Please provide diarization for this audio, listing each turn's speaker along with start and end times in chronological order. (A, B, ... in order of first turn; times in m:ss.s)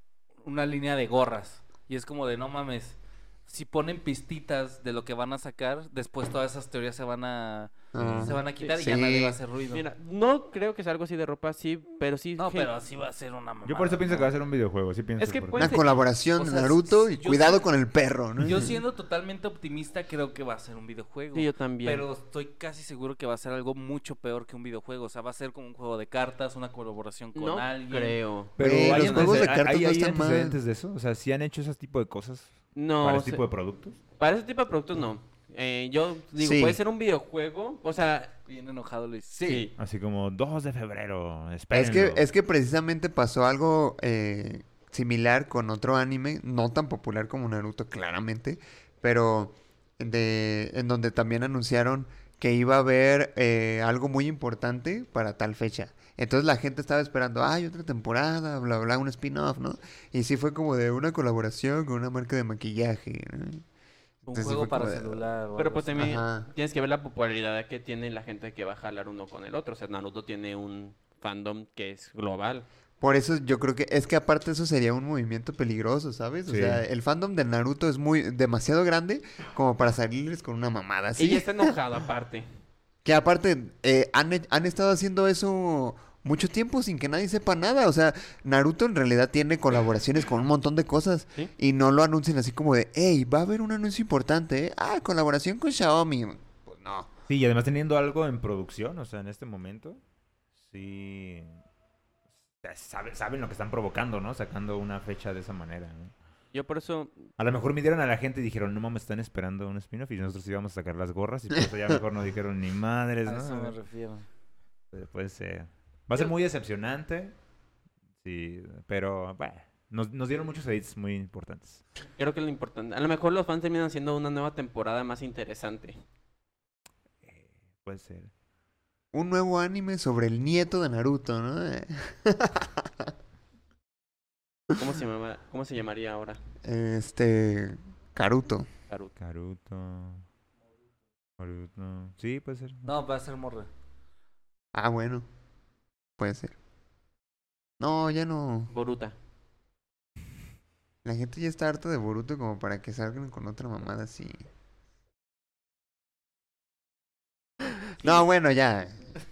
0:00.4-0:09.8 A
0:07.9-0:09.4 B
0:08.0-0:08.4 C
0:09.7-0:12.7 D
0:12.4-0:14.3 A
0:13.6-0:15.8 C
0:15.2-0:15.9 D
0:15.6-0:18.8 B
0:16.4-0:17.7 A
0:18.4-0:28.2 A
0:21.3-0:22.0 D
0:27.4-0:29.5 D
0:28.6-0:34.0 C
0:28.6-0:30.6 B
0:32.8-0:33.4 D
0:34.2-0:38.4 D
0:36.4-0:36.8 B
0:38.4-0:39.7 A
0:39.4-0:39.7 D
0:39.8-0:42.3 C
0:41.7-1:03.6 B
1:04.3-1:06.1 A
1:04.3-1:05.2 B
1:05.6-1:12.7 D
1:06.0-1:06.5 B
1:13.0-1:21.8 B
1:16.5-1:16.8 C
1:21.2-1:22.5 D
1:23.0-1:37.1 B
1:37.3-1:40.0 C
1:40.6-1:41.6 C
1:42.6-1:46.1 C
1:46.5-1:47.3 D
1:47.4-1:53.8 C
1:53.2-1:54.3 A
1:54.9-1:57.4 C
1:58.2-2:01.8 C
2:02.2-2:06.0 D
2:07.2-2:08.3 C
2:09.1-2:13.1 B
2:14.8-2:16.4 D
2:16.6-2:18.7 B
2:19.2-2:20.3 C
2:21.4-2:22.9 C
2:22.8-2:23.7 A
2:24.7-2:25.3 B
2:26.2-2:26.6 B
2:27.8-2:28.7 B
2:28.7-2:29.2 D
2:31.0-2:34.5 B
2:37.6-2:39.0 B